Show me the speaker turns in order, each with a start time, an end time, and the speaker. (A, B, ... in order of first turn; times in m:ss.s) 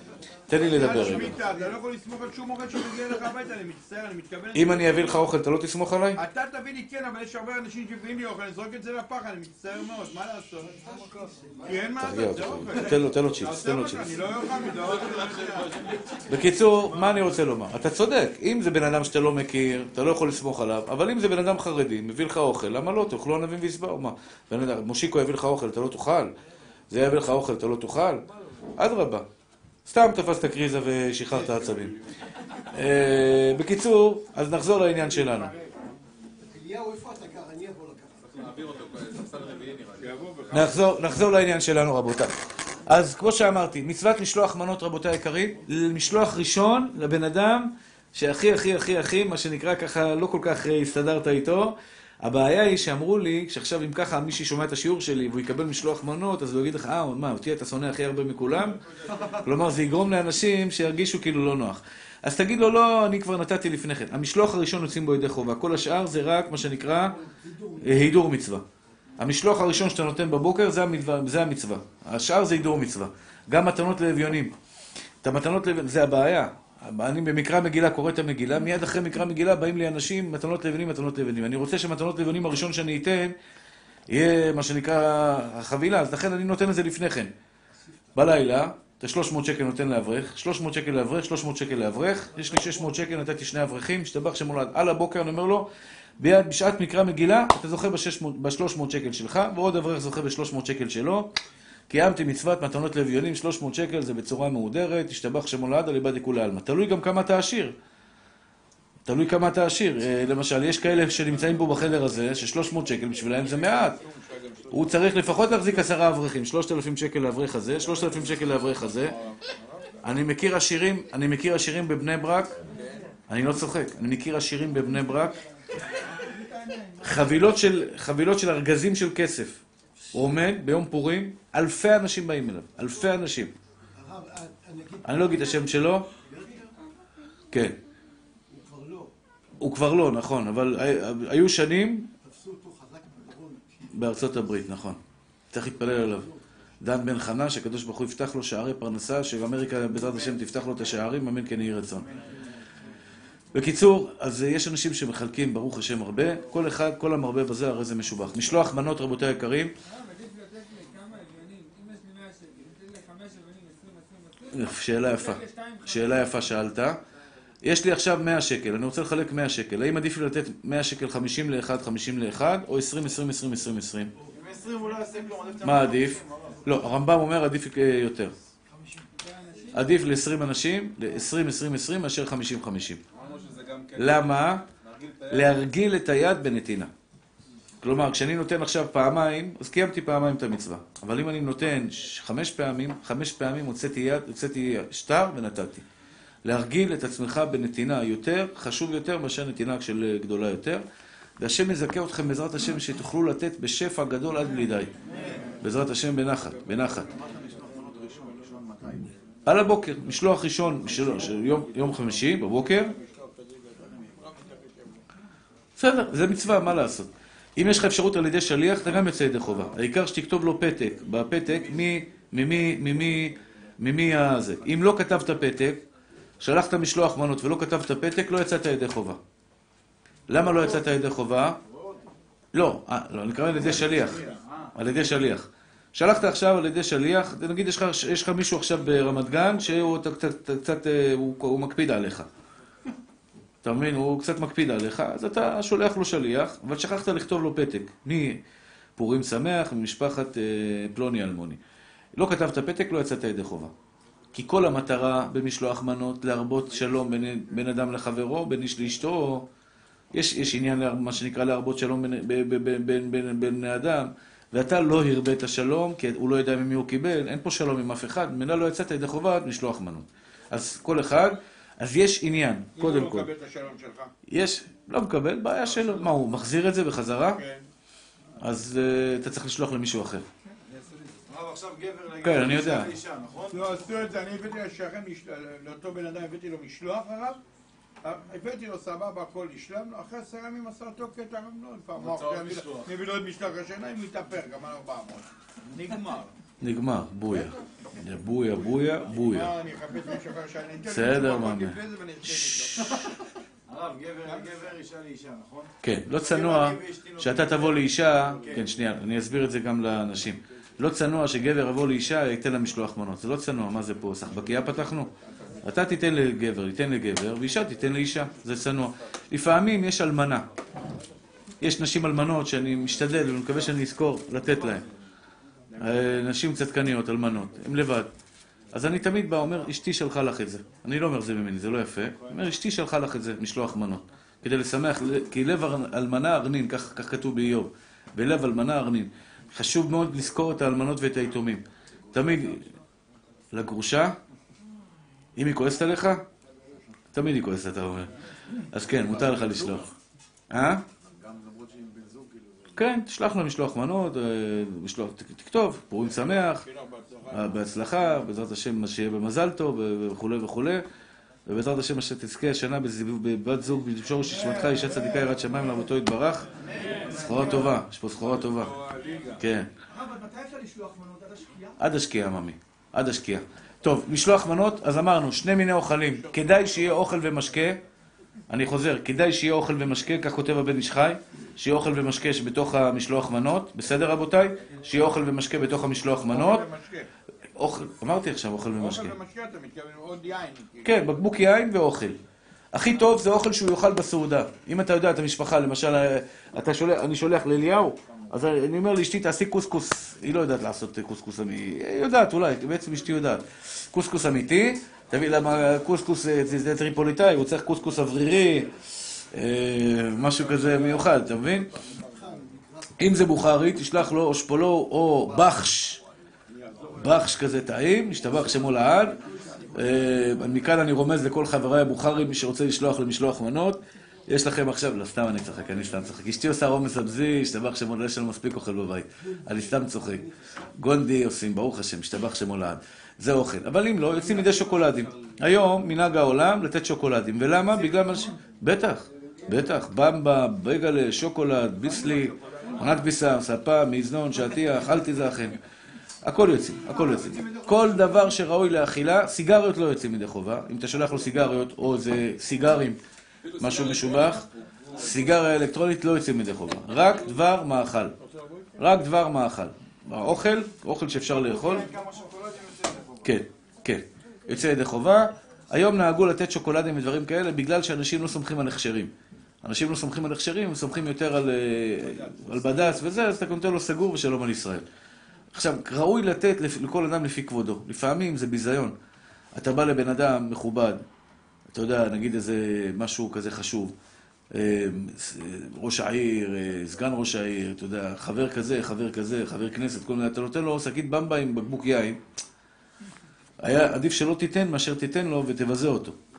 0:00.5-0:01.4 A
0:00.6-0:05.2 B
0:04.5-0:06.2 A
0:06.2-0:11.0 B
0:10.8-0:11.9 C
0:11.6-0:15.7 B
0:12.0-0:14.1 A
0:14.7-0:15.5 D
0:14.8-0:16.0 E
0:16.3-0:26.3 A
0:26.9-0:28.3 A
0:28.8-0:29.3 A
0:29.9-0:32.0 A
0:32.7-0:35.5 A
0:35.2-0:35.7 B
0:36.5-0:38.5 C
0:38.2-0:40.8 E
0:40.0-0:40.8 B
0:40.5-1:07.2 A
0:58.9-0:59.4 D
1:07.2-1:08.0 C
1:07.8-1:08.6 A
1:09.2-1:14.5 A
1:15.2-1:23.4 A
1:24.1-1:27.3 A
1:28.2-1:41.3 A
1:41.9-1:47.8 A
1:49.1-1:54.0 A
1:53.4-1:55.5 B
1:54.7-1:59.2 A
1:58.0-1:58.3 B
1:59.0-2:00.0 B
2:00.0-2:02.6 A
2:03.3-2:05.4 A
2:06.1-2:07.3 C
2:07.0-2:13.5 A
2:14.0-2:15.6 C
2:15.0-2:16.1 A
2:16.2-2:16.7 C
2:17.5-2:17.8 A
2:18.5-2:19.1 C
2:19.6-2:22.1 A
2:22.2-2:23.6 C
2:23.9-2:25.0 A
2:25.5-2:26.3 A
2:26.8-2:32.1 A
2:32.0-2:32.5 D
2:33.5-2:39.7 A
2:39.9-2:46.2 C
2:44.5-2:47.0 A
2:47.6-2:54.1 A
2:54.3-2:56.7 D
2:55.6-2:58.4 A
2:58.8-2:59.9 C
2:59.7-3:03.0 A
3:03.1-3:05.6 E
3:04.0-3:04.6 A
3:05.3-3:06.9 A
3:07.8-3:15.8 A
3:16.4-3:20.8 A
3:21.4-3:24.9 A
3:25.2-3:25.4 D
3:25.6-3:27.1 A
3:27.0-3:29.1 D
3:29.5-3:32.9 A
3:32.5-3:35.0 B
3:35.8-3:45.8 A
3:46.4-3:49.2 A
3:50.3-3:51.6 A
3:51.6-3:52.0 D
3:52.5-4:02.3 A
3:53.5-3:54.7 D
4:03.6-4:08.4 A
4:09.0-4:11.6 A
4:12.2-4:13.7 A
4:14.3-4:19.5 A
4:20.1-4:33.3 A
4:32.8-4:34.1 B
4:34.3-4:37.4 A
4:37.3-4:37.6 B
4:38.4-4:40.3 A
4:41.3-4:43.7 D
4:42.2-4:42.9 A
4:43.5-4:47.4 B
4:48.0-4:55.3 B
4:52.0-4:52.8 E
4:55.7-4:56.3 D
4:56.6-4:59.5 A
4:59.1-5:03.2 B
5:00.9-5:01.8 A
5:03.7-5:08.8 D
5:04.3-5:04.5 B
5:05.8-5:20.5 A
5:21.6-5:24.9 A
5:25.8-5:28.1 A
5:28.7-5:42.7 A
5:43.5-5:44.2 A
5:45.4-5:46.2 A
5:47.1-5:49.9 A
5:50.5-5:50.8 A
5:51.0-5:52.7 D
5:52.7-5:56.7 A
5:56.1-5:57.7 B
5:57.3-6:00.8 A
6:01.5-6:08.8 A
6:04.2-6:05.3 D
6:06.6-6:07.8 D
6:06.7-6:07.2 C
6:08.2-6:09.4 E
6:09.4-6:09.7 A
6:09.9-6:11.8 C
6:11.8-6:17.8 A
6:16.2-6:17.0 B
6:18.5-6:26.7 A
6:26.3-6:27.1 B
6:27.6-6:29.2 A
6:28.8-6:31.0 B
6:30.8-6:32.2 A
6:32.7-6:51.7 A
6:50.4-6:51.1 B
6:53.0-6:56.0 A
6:56.9-7:25.6 A
7:22.0-7:22.8 D
7:22.2-7:22.6 B
7:26.2-7:33.0 A
7:26.9-7:28.4 D
7:33.4-7:34.6 E
7:33.6-7:38.1 A
7:38.2-7:38.8 B
7:38.8-7:41.9 A
7:41.4-7:43.4 D
7:43.2-7:49.1 A
7:49.6-7:54.8 A
7:52.0-7:53.0 B
7:55.5-7:59.0 A
7:59.6-8:01.0 A
8:01.7-8:03.9 A
8:04.5-8:12.2 A
8:13.6-8:16.2 A